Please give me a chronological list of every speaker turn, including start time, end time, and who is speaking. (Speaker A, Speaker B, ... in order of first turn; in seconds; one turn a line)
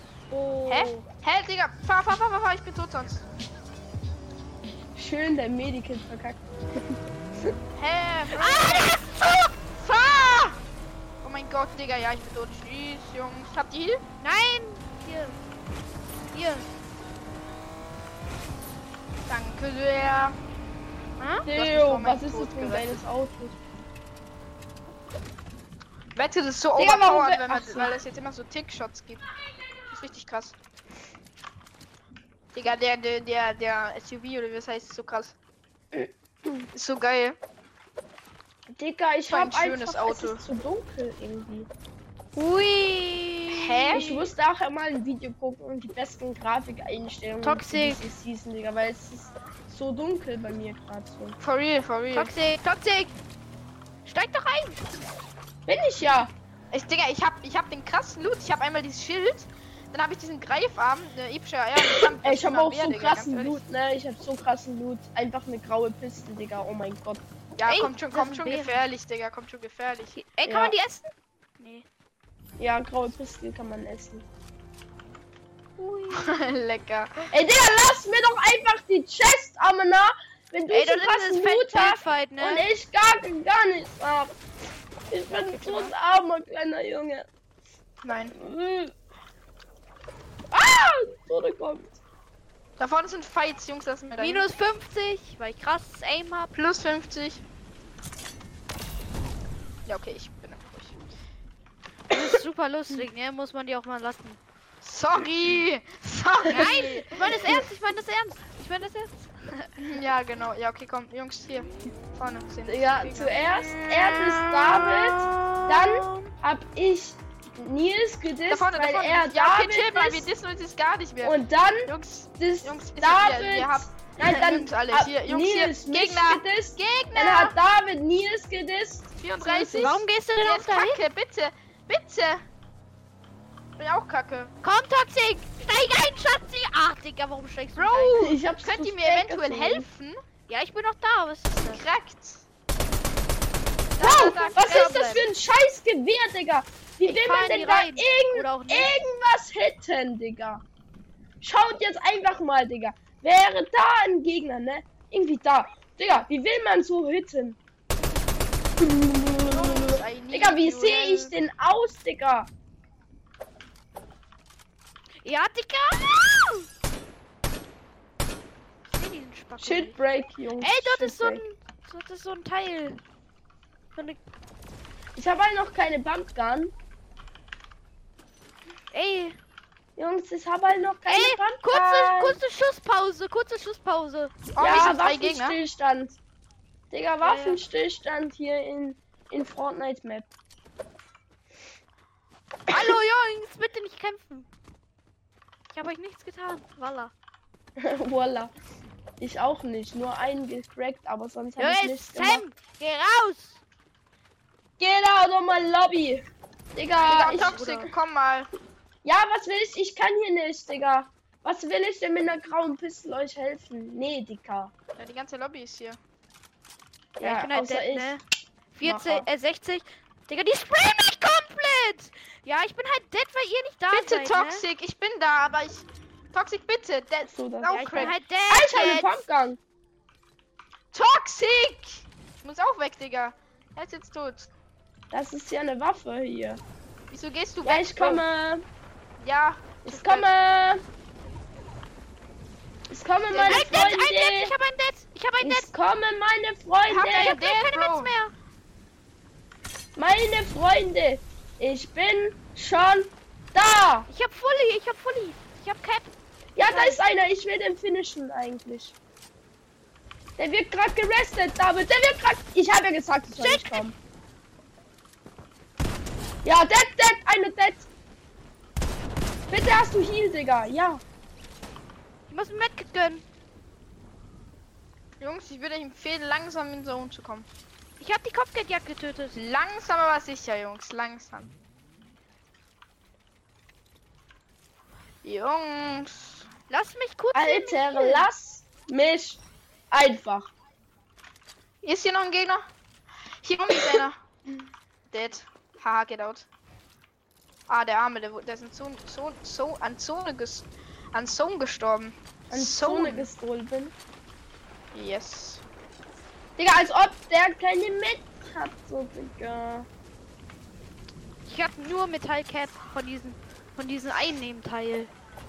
Speaker A: 0.3-1.1
Speaker B: 0.7-3.2
Speaker C: 5.0-7.0
Speaker B: 7.8-8.9
Speaker A: 8.3-9.5
Speaker B: 9.8-10.6
Speaker B: 11.2-14.0
Speaker A: 14.2-15.4
Speaker A: 16.3-16.7
Speaker B: 19.3-20.4
Speaker A: 21.2-21.4
Speaker B: 21.4-23.0
Speaker C: 21.5-23.6
Speaker B: 26.1-29.2
Speaker C: 26.8-27.9
Speaker B: 29.9-30.6
Speaker B: 32.5-35.4
Speaker C: 35.9-36.7
Speaker B: 36.7-37.4
Speaker C: 38.7-41.7
Speaker B: 39.3-40.4
Speaker A: 42.4-44.0
Speaker B: 43.5-44.3
Speaker C: 43.9-51.4
Speaker A: 47.4-48.0
Speaker B: 51.4-52.3
Speaker A: 52.1-53.1
Speaker A: 54.0-54.9
Speaker C: 55.7-56.3
Speaker B: 56.7-63.6
Speaker C: 62.2-67.2
Speaker B: 67.6-70.2
Speaker A: 67.7-68.8
Speaker A: 70.2-71.1
Speaker C: 70.5-70.8
Speaker A: 71.6-71.9
Speaker C: 72.6-74.3
Speaker A: 75.8-76.4
Speaker B: 76.1-77.3
Speaker C: 77.3-84.3
Speaker A: 80.7-82.7
Speaker C: 85.1-87.3
Speaker B: 85.5-85.9
Speaker B: 88.0-88.4
Speaker C: 88.3-88.9
Speaker C: 90.5-92.0
Speaker B: 92.8-94.5
Speaker A: 94.2-96.5
Speaker B: 96.5-97.4
Speaker B: 99.9-101.0
Speaker A: 102.1-104.4
Speaker B: 104.8-107.6
Speaker A: 106.5-109.7
Speaker B: 109.8-113.4
Speaker C: 112.7-120.3
Speaker B: 114.3-115.2
Speaker B: 118.5-127.6
Speaker C: 121.2-130.0
Speaker B: 129.2-132.4
Speaker A: 129.4-131.1
Speaker B: 133.8-134.5
Speaker A: 134.6-138.2
Speaker B: 137.8-140.2
Speaker C: 138.2-139.9
Speaker A: 140.5-141.8
Speaker B: 141.6-142.5
Speaker B: 144.0-145.2
Speaker C: 144.0-150.6
Speaker A: 144.2-145.3
Speaker A: 147.0-148.9
Speaker C: 151.4-157.6
Speaker C: 158.8-162.5
Speaker B: 159.5-161.3
Speaker A: 165.2-166.7
Speaker A: 168.9-170.0
Speaker C: 169.6-171.4
Speaker A: 170.6-173.0
Speaker C: 175.2-176.7
Speaker A: 178.9-179.4
Speaker C: 180.0-182.4
Speaker A: 181.1-184.9
Speaker B: 184.5-185.6
Speaker C: 184.6-186.2
Speaker C: 186.9-190.3
Speaker A: 187.2-187.6
Speaker A: 192.7-194.5
Speaker A: 195.7-197.1
Speaker C: 197.8-198.5
Speaker C: 199.2-202.4
Speaker A: 201.6-203.6
Speaker C: 204.8-207.7
Speaker B: 207.0-208.5
Speaker A: 207.2-207.9
Speaker C: 209.0-214.7
Speaker B: 215.0-216.0
Speaker C: 217.2-218.2
Speaker A: 217.2-218.2
Speaker A: 218.7-224.7
Speaker C: 218.8-219.3
Speaker B: 223.9-228.2
Speaker C: 227.3-229.6
Speaker A: 227.7-229.2
Speaker B: 230.9-234.5
Speaker C: 235.1-236.6
Speaker B: 237.1-238.2
Speaker C: 237.6-238.6
Speaker B: 239.2-240.3
Speaker C: 239.8-240.8
Speaker C: 242.9-244.5
Speaker B: 243.2-243.8
Speaker A: 243.4-245.7
Speaker C: 245.4-247.4
Speaker B: 246.9-248.1
Speaker A: 247.0-248.3
Speaker C: 250.0-254.1
Speaker A: 254.1-257.0
Speaker C: 256.6-259.0
Speaker C: 260.4-264.0
Speaker A: 263.3-263.9
Speaker C: 266.4-267.9
Speaker C: 269.5-271.0
Speaker A: 272.3-273.2
Speaker B: 275.2-277.5
Speaker A: 278.0-279.4
Speaker B: 279.4-281.5
Speaker B: 285.2-286.5
Speaker A: 286.7-288.3
Speaker C: 287.3-290.5
Speaker B: 291.8-292.6
Speaker B: 293.4-294.2
Speaker B: 295.1-296.5
Speaker B: 297.7-303.3
Speaker C: 302.5-303.9
Speaker B: 304.9-305.6
Speaker C: 306.6-309.9
Speaker A: 311.5-315.1